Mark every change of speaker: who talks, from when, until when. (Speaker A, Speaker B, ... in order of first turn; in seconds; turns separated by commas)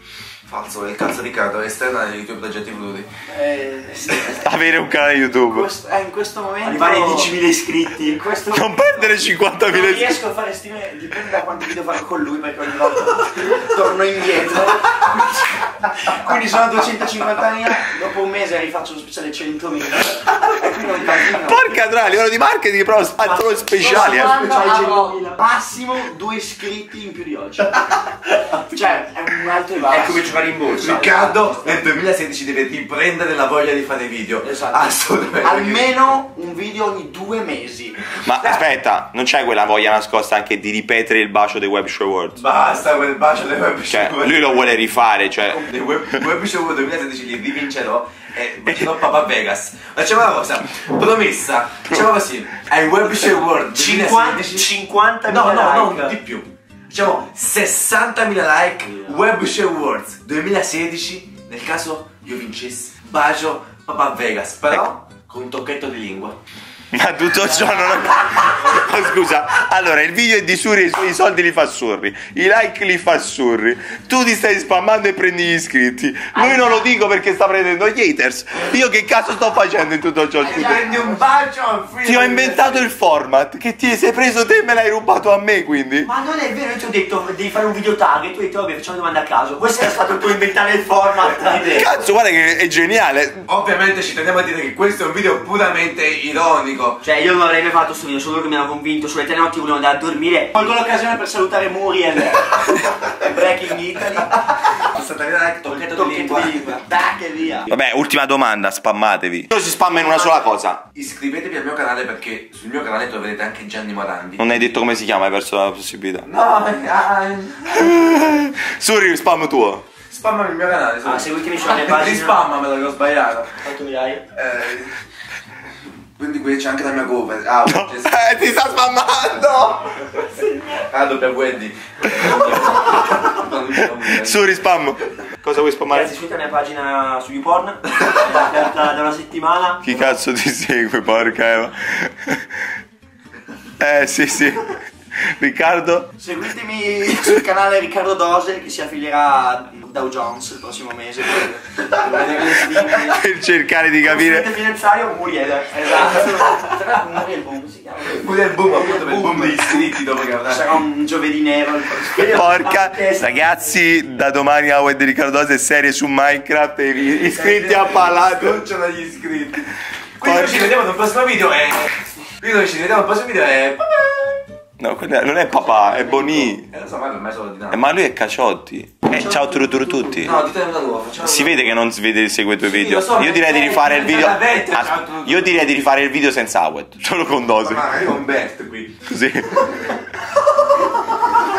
Speaker A: 0.5-3.1, Speaker B: 3.3-4.5, Speaker C: 4.3-5.7, Speaker B: 5.5-7.3, Speaker D: 6.6-8.2, Speaker B: 8.1-8.9, Speaker C: 8.5-10.2, Speaker B: 9.7-21.8, Speaker C: 21.4-24.4, Speaker D: 23.2-25.4, Speaker B: 23.8-30.3, Speaker D: 29.9-31.4, Speaker A: 30.7-36.1, Speaker B: 34.4-38.0, Speaker C: 38.2-42.4, Speaker A: 42.4-44.6, Speaker C: 43.9-45.6, Speaker A: 45.5-54.7, Speaker D: 53.7-56.2, Speaker A: 55.3-66.4, Speaker C: 66.9-80.8, Speaker D: 76.3-76.8, Speaker A: 80.4-82.9, Speaker B: 80.9-81.2, Speaker C: 82.0-86.1, Speaker D: 86.0-91.9, Speaker C: 91.6-93.4, Speaker A: 93.5-97.0, Speaker D: 97.0-100.7, Speaker B: 100.5-104.8, Speaker A: 104.8-106.8, Speaker B: 105.7-107.7, Speaker C: 107.7-110.8, Speaker A: 111.0-114.5, Speaker C: 114.4-116.3, Speaker A: 116.2-118.0, Speaker C: 117.7-119.8, Speaker A: 120.1-123.6, Speaker D: 121.0-122.4, Speaker D: 123.6-124.2, Speaker A: 124.3-124.9, Speaker A: 126.2-128.1, Speaker C: 127.7-130.1, Speaker A: 130.7-134.4, Speaker C: 133.8-136.1, Speaker D: 135.9-140.0, Speaker C: 139.8-142.6, Speaker C: 143.8-144.8, Speaker C: 145.3-146.1, Speaker B: 146.2-153.2, Speaker A: 152.0-152.7, Speaker C: 152.8-154.5, Speaker D: 154.0-156.4, Speaker B: 155.7-159.8, Speaker A: 158.0-160.7, Speaker B: 160.4-162.6, Speaker D: 162.1-163.7, Speaker C: 162.2-168.6, Speaker A: 167.2-169.7, Speaker A: 170.2-174.4, Speaker C: 170.2-170.7, Speaker C: 174.8-176.7, Speaker A: 176.7-177.8, Speaker C: 177.7-180.4, Speaker A: 180.2-181.7, Speaker C: 181.2-187.8, Speaker A: 182.6-185.7, Speaker A: 187.6-189.0, Speaker C: 189.1-189.8